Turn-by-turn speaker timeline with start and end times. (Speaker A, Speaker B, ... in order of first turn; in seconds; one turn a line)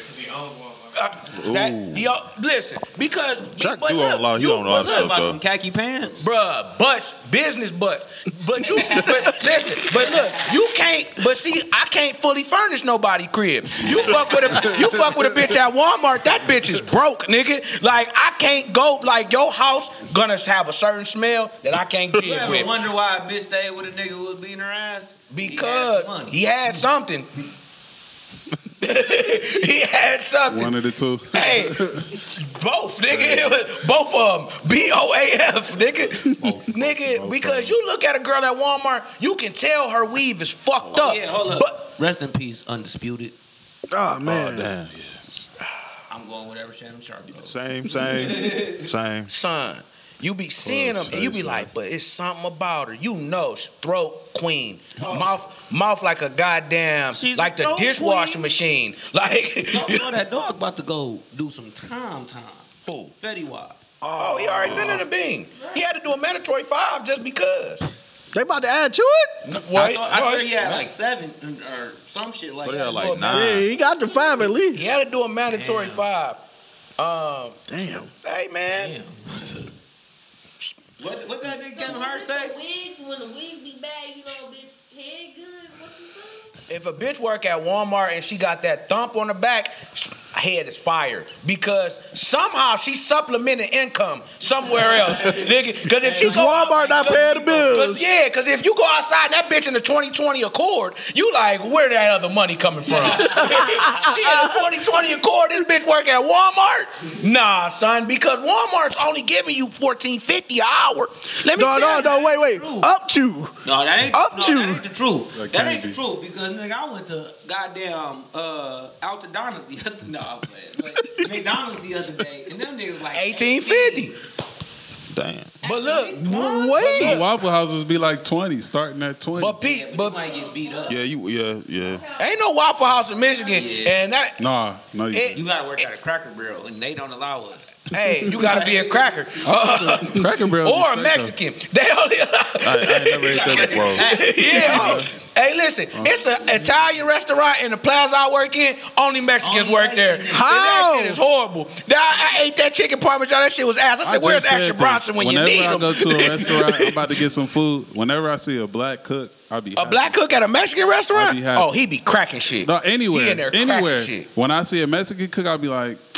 Speaker A: 0.9-5.2
Speaker B: 1.3-2.1
Speaker B: 3.5-5.4
Speaker C: 4.7-6.3
Speaker A: 6.2-22.8
Speaker C: 8.6-10.6
Speaker C: 13.8-15.1
Speaker D: 14.7-15.5
Speaker C: 22.2-26.4
Speaker A: 25.3-27.3
Speaker A: 28.8-30.8
Speaker D: 30.5-32.2
Speaker A: 31.3-31.8
Speaker A: 32.3-41.8
Speaker D: 33.1-33.6
Speaker D: 36.4-37.8
Speaker C: 40.9-43.4
Speaker E: 43.9-44.7
Speaker B: 44.2-45.2
Speaker C: 46.1-48.9
Speaker B: 47.3-49.3
Speaker A: 49.3-60.1
Speaker D: 50.6-51.7
Speaker C: 55.0-55.3
Speaker C: 57.1-58.5
Speaker C: 59.7-64.9
Speaker A: 64.2-67.8
Speaker B: 64.6-65.0
Speaker F: 65.5-65.9
Speaker E: 68.3-69.4
Speaker A: 69.4-70.9
Speaker C: 69.7-73.2
Speaker B: 72.6-73.7
Speaker A: 72.8-73.6
Speaker E: 73.3-75.0
Speaker F: 73.6-74.5
Speaker A: 74.7-76.4
Speaker C: 75.5-76.0
Speaker A: 77.0-77.6
Speaker E: 77.7-78.1
Speaker A: 78.2-78.9
Speaker C: 78.7-79.7
Speaker C: 81.0-82.5
Speaker F: 81.4-86.6
Speaker A: 86.7-112.2
Speaker C: 94.8-95.3
Speaker C: 96.0-97.4
Speaker E: 96.2-98.1
Speaker C: 102.9-103.6
Speaker E: 103.0-105.0
Speaker E: 111.5-113.5
Speaker C: 111.7-112.9
Speaker C: 113.6-124.1
Speaker E: 114.1-114.8
Speaker D: 115.3-116.0
Speaker A: 123.1-124.2
Speaker B: 125.1-125.6
Speaker C: 125.6-126.8
Speaker A: 125.6-127.3
Speaker E: 126.3-127.2
Speaker D: 126.9-129.6
Speaker A: 129.4-130.3
Speaker C: 129.6-131.0
Speaker F: 130.0-131.0
Speaker B: 130.9-132.1
Speaker F: 131.8-133.8
Speaker A: 132.2-134.4
Speaker C: 133.5-134.0
Speaker D: 134.4-135.4
Speaker A: 135.1-135.4
Speaker C: 135.3-137.7
Speaker A: 137.9-157.0
Speaker C: 138.2-139.2
Speaker D: 139.4-141.3
Speaker B: 142.6-144.1
Speaker C: 143.3-145.0
Speaker E: 144.6-144.9
Speaker D: 144.6-145.1
Speaker D: 145.9-146.2
Speaker C: 149.4-150.6
Speaker E: 150.3-151.2
Speaker D: 154.0-160.1
Speaker A: 159.8-164.3
Speaker D: 161.1-161.8
Speaker D: 162.6-166.0